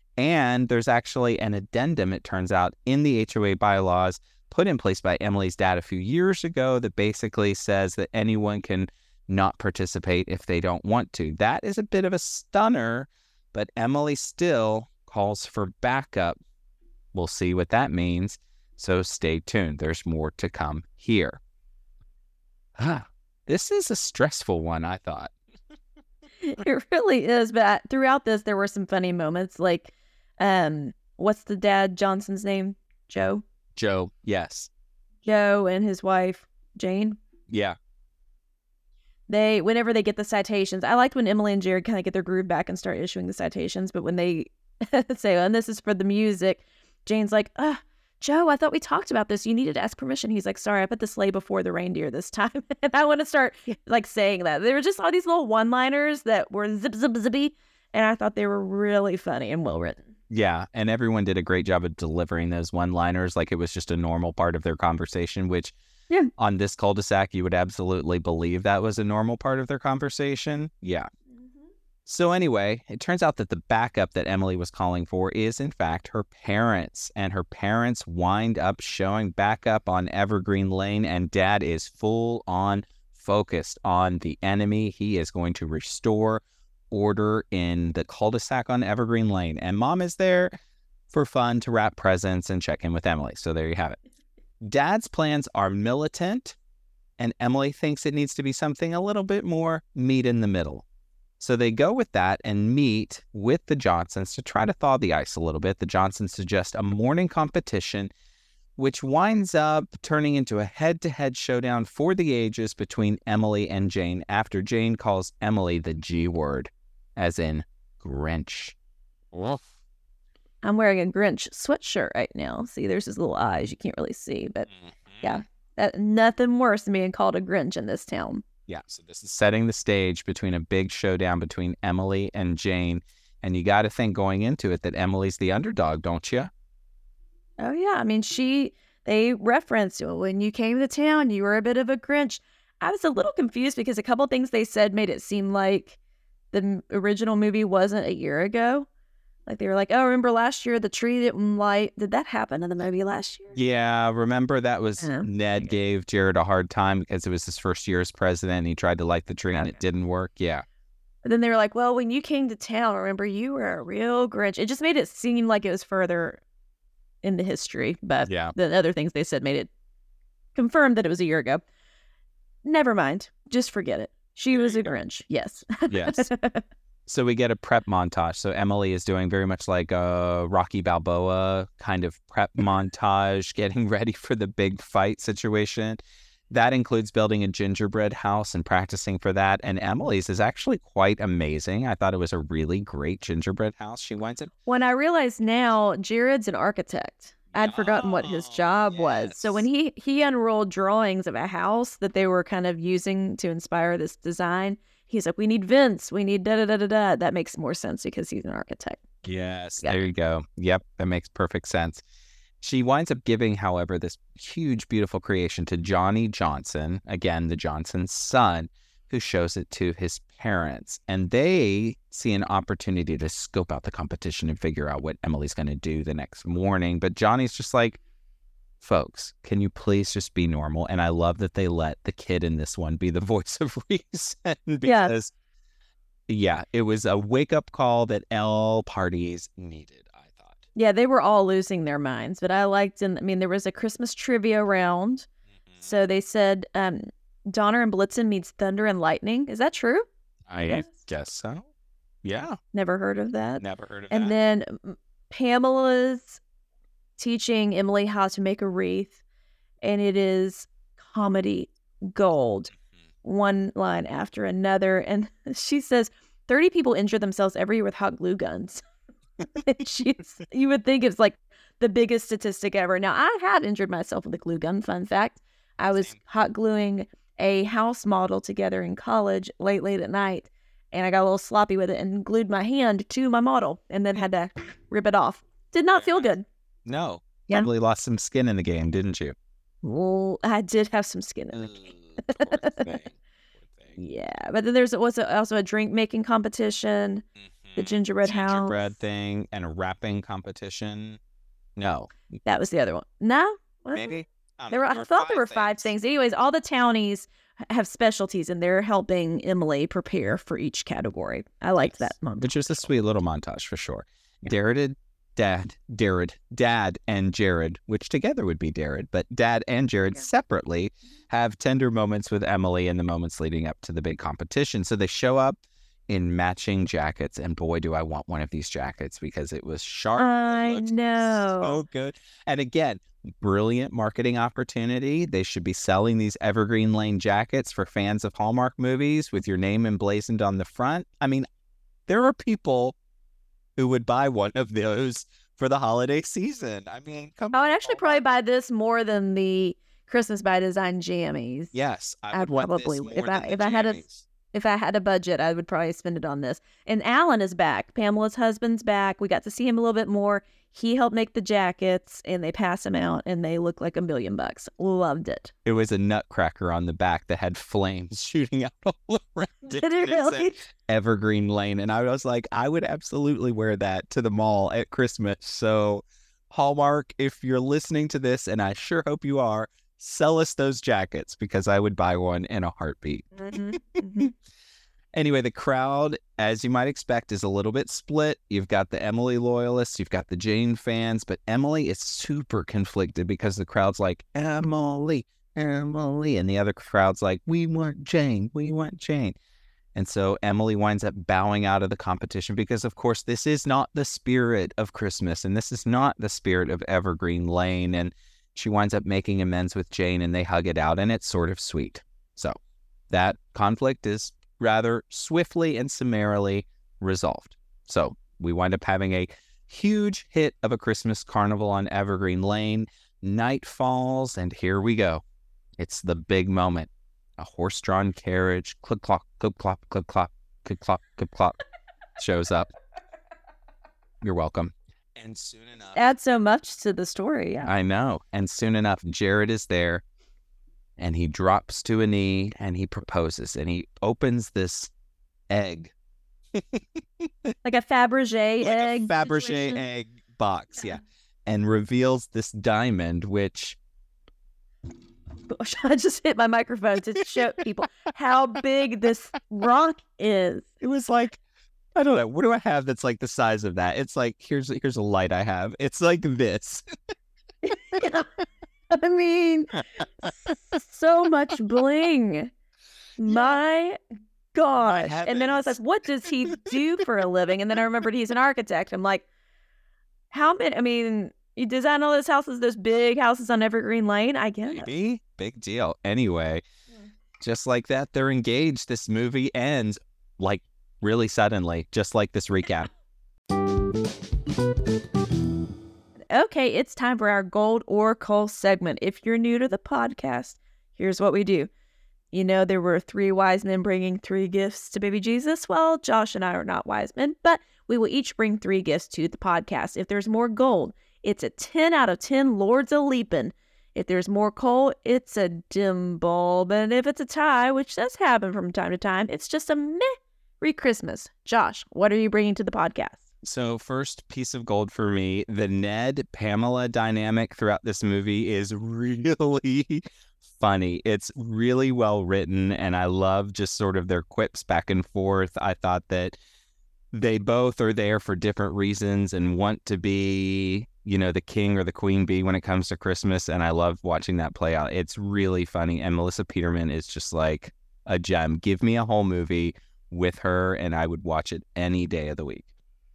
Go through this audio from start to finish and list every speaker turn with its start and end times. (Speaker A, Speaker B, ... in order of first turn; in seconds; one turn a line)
Speaker A: 0.2-16.4
Speaker A: 17.1-21.4
Speaker A: 22.8-25.3
Speaker B: 26.4-33.4
Speaker A: 33.8-34.7
Speaker B: 35.2-37.2
Speaker A: 37.5-37.8
Speaker B: 39.3-60.0
Speaker A: 60.3-65.7
Speaker A: 66.4-71.1
Speaker A: 72.1-90.5
Speaker A: 91.1-94.0
Speaker A: 94.6-96.6
Speaker A: 97.2-100.8
Speaker A: 101.4-108.1
Speaker A: 108.8-118.8
Speaker A: 119.3-119.7
Speaker B: 120.6-124.7
Speaker A: 124.7-125.4
Speaker B: 125.2-128.4
Speaker A: 128.7-136.5
Speaker B: 137.6-146.0
Speaker B: 146.5-148.9
Speaker B: 149.5-153.6
Speaker A: 153.5-160.6
Speaker B: 155.0-155.3
Speaker B: 159.5-159.8
Speaker B: 161.2-166.4
Speaker B: 167.2-169.7
Speaker A: 168.2-168.5
Speaker B: 170.6-171.6
Speaker B: 172.6-176.6
Speaker A: 174.5-174.9
Speaker A: 175.9-176.3
Speaker A: 177.1-186.0
Speaker A: 186.5-194.5
Speaker B: 194.7-209.0
Speaker A: 197.5-199.6
Speaker A: 209.2-212.0
Speaker A: 212.6-228.0
Speaker A: 228.8-235.3
Speaker B: 234.8-235.1
Speaker A: 236.3-240.6
Speaker B: 240.8-245.3
Speaker B: 245.8-250.1
Speaker A: 250.5-251.7
Speaker A: 252.2-252.6
Speaker B: 252.7-256.4
Speaker A: 253.6-254.3
Speaker B: 257.2-259.2
Speaker B: 259.8-262.7
Speaker B: 263.2-268.8
Speaker B: 269.4-286.4
Speaker A: 285.9-286.3
Speaker A: 286.9-289.4
Speaker B: 289.8-293.0
Speaker A: 291.5-294.0
Speaker B: 294.0-297.2
Speaker A: 297.4-301.2
Speaker B: 297.8-298.9
Speaker A: 301.8-302.1
Speaker B: 302.5-304.1
Speaker A: 303.9-305.9
Speaker B: 304.7-312.9
Speaker A: 311.8-325.6
Speaker A: 326.1-341.5
Speaker B: 330.2-331.8
Speaker A: 342.1-343.0
Speaker A: 343.8-348.2
Speaker B: 347.5-351.7
Speaker A: 351.7-354.3
Speaker B: 352.3-365.5
Speaker A: 365.6-384.3
Speaker B: 369.8-370.6
Speaker B: 383.4-384.3
Speaker A: 385.1-399.4
Speaker A: 399.9-412.6
Speaker A: 413.1-425.2
Speaker A: 425.8-431.6
Speaker A: 432.2-432.7
Speaker A: 434.2-436.1
Speaker B: 435.9-437.7
Speaker A: 437.6-440.0
Speaker A: 441.0-444.9
Speaker A: 445.5-445.9
Speaker A: 446.6-447.5
Speaker B: 447.6-449.8
Speaker A: 448.6-453.8
Speaker B: 455.5-460.7
Speaker A: 460.8-461.4
Speaker A: 461.9-466.8
Speaker B: 467.6-468.3
Speaker B: 468.9-472.5
Speaker B: 473.2-474.0
Speaker B: 474.5-479.2
Speaker A: 474.8-475.8
Speaker B: 480.3-484.9
Speaker A: 484.7-486.6
Speaker A: 487.4-492.9
Speaker B: 496.3-501.7
Speaker B: 502.3-523.2
Speaker A: 523.4-530.0
Speaker A: 530.5-536.4
Speaker A: 537.1-552.7